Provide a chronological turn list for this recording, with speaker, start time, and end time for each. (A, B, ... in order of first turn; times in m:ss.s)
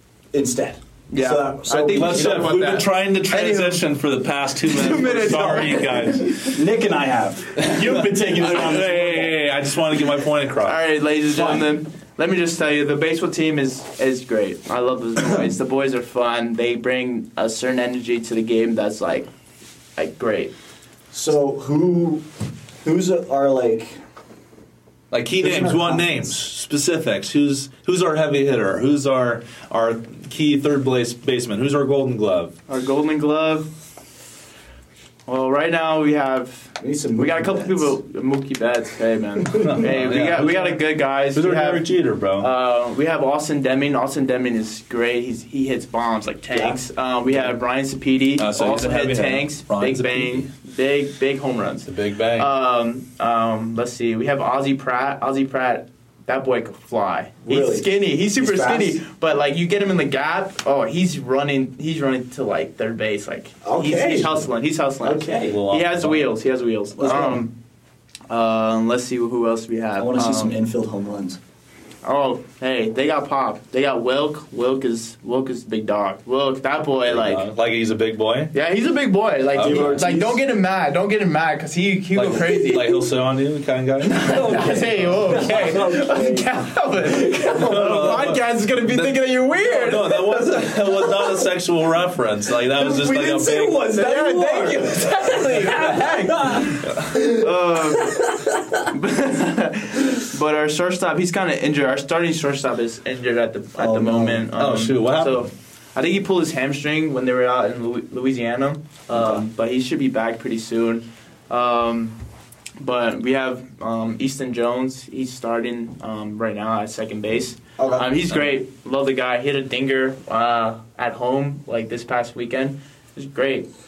0:00.3-0:02.5 A
0:01.1-0:03.8 B
0:01.9-0:06.6 C
0:04.7-0:06.4 B
0:06.5-0:09.4 A
0:07.6-0:10.8 C
0:10.6-0:19.3 B
0:11.3-0:11.7 A
0:20.0-0:20.5 B
0:21.1-0:22.3 A
0:22.8-0:24.0 A
0:25.1-0:32.6 C
0:25.4-0:26.3 A
0:32.7-0:33.7 B
0:35.3-0:41.9 B
0:36.8-0:38.0 A
0:39.5-0:42.5 C
0:42.4-1:07.5 B
0:46.5-0:46.8 A
0:48.4-0:50.5 C
0:51.8-0:52.5 C
0:57.5-0:59.0 A
1:03.6-1:04.5 A
1:05.0-1:05.6 A
1:05.5-1:06.3 C
1:07.0-1:07.4 A
1:08.3-1:10.6 B
1:10.0-1:11.4 A
1:12.0-1:17.4 B
1:17.1-1:18.5 C
1:18.5-1:23.0 B
1:19.5-1:20.0 C
1:19.6-1:20.4 A
1:22.2-1:25.6 C
1:24.0-1:30.4 B
1:24.3-1:26.5 A
1:27.2-1:28.0 A
1:27.5-1:33.9 C
1:32.8-1:38.6 A
1:32.9-1:38.3 B
1:36.8-1:37.2 C
1:38.8-1:52.2 B
1:43.8-1:44.5 A
1:44.6-1:45.5 C
1:49.1-1:49.4 A
1:52.8-2:03.7 B
1:57.8-1:58.2 A